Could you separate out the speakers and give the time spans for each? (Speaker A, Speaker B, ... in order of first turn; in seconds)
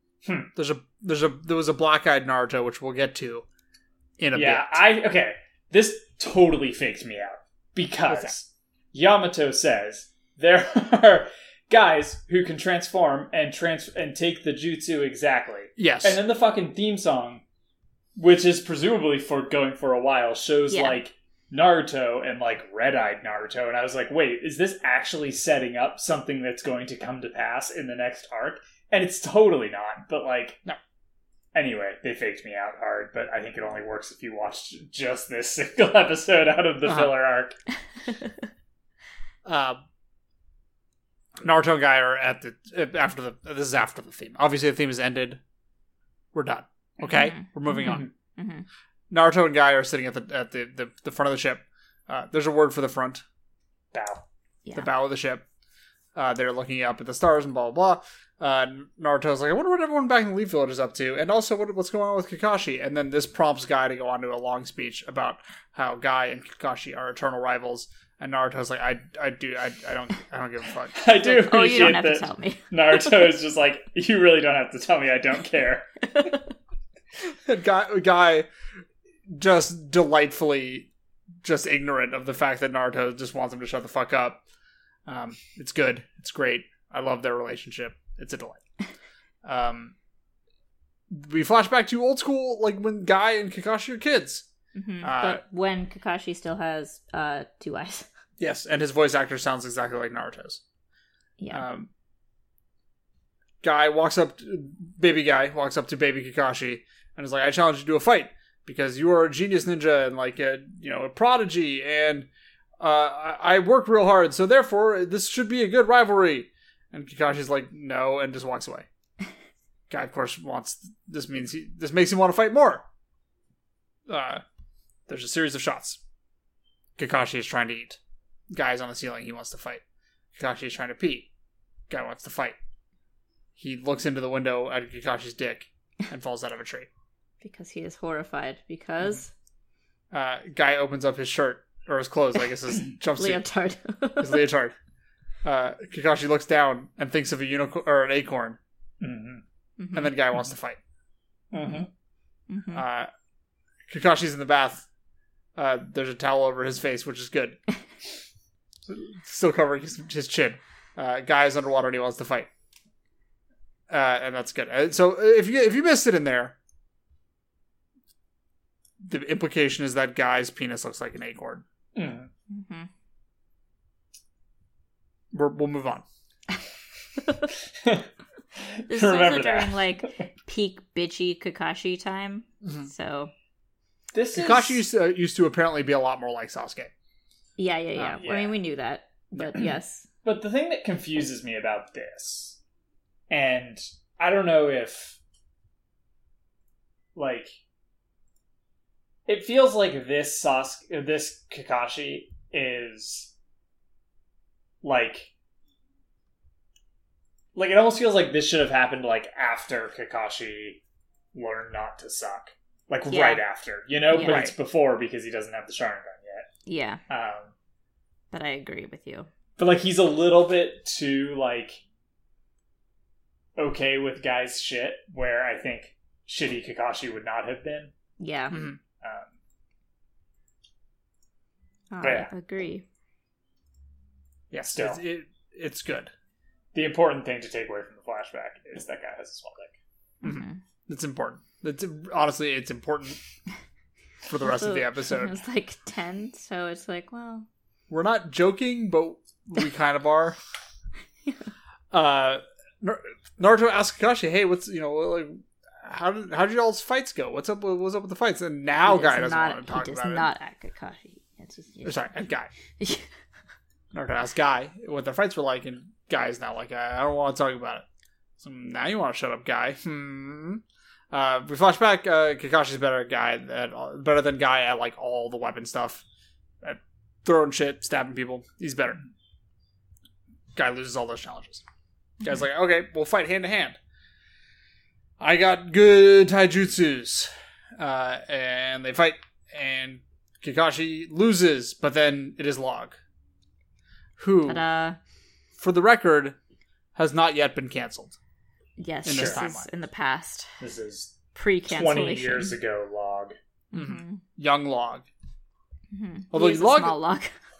Speaker A: 0.2-0.5, 4.3-17.4, 18.1-30.6, 31.5-37.5, 47.8-48.1, 53.9-54.2, 71.0-76.4, 149.0-149.4, 151.5-151.9, 171.9-172.3, 177.8-180.2, 184.1-184.8, 188.1-188.6, 189.4-189.7, 190.2-192.6, 193.3-195.2, 197.1-197.6, 199.3-203.3, 204.8-205.3, 207.5-210.8, 211.3-216.5, 217.1-217.5, 219.6-221.8, 223.6-227.9, 229.0-229.3, 232.0-232.3, 234.7-235.0, 236.7-239.8, 299.1-299.4, 300.6-303.4
Speaker B: 0.5-3.4, 4.2-4.8, 8.1-8.4, 15.8-16.2, 36.8-37.1, 39.5-39.8, 41.4-45.4, 46.3-48.1, 49.1-53.2, 54.7-55.4, 56.1-71.0, 77.2-78.5, 79.3-80.9, 81.4-84.4, 85.0-88.6, 89.4-89.9, 91.1-94.5, 95.0-95.4, 98.4-100.6, 101.5-101.9, 103.6-112.3, 112.8-118.9, 119.9-122.8, 124.1-124.4, 125.1-126.0, 127.0-128.0, 128.5-129.8, 130.3-131.3, 131.9-132.6, 133.6-136.9, 140.1-143.4, 144.2-144.7, 145.4-148.6, 149.9-150.8, 152.7-153.1, 153.9-154.8, 155.6-157.6, 158.9-162.5, 163.9-166.6, 169.0-171.6, 175.3-176.0, 182.6-182.9, 184.3-186.9, 187.9-188.2, 214.2-214.5, 228.5-228.8, 234.5-236.1, 240.2-243.2, 244.3-245.4, 247.9-250.4, 251.9-260.3, 261.8-262.5, 263.9-267.8, 268.4-276.0, 276.6-279.0, 280.5-281.6, 282.2-283.8, 285.2-293.0, 294.2-294.6, 295.6-296.4, 296.9-298.1, 299.0-299.7, 303.7-305.1, 306.3-307.0
Speaker C: 20.7-21.0, 47.0-48.6, 71.2-73.3, 94.7-98.1, 101.4-101.6, 137.4-139.3, 143.2-144.4, 149.8-150.2, 152.5-152.8, 172.5-172.9, 177.2-177.5, 178.9-183.3, 187.6-190.1, 213.1-213.4, 214.1-214.5, 216.7-217.0, 218.3-219.3, 228.2-228.6, 231.9-232.8, 240.2-240.6, 244.4-247.5, 251.2-251.5, 258.8-262.1, 262.8-263.1, 294.4-295.0, 298.8-300.5, 301.3-302.6, 303.7-304.2, 305.9-307.3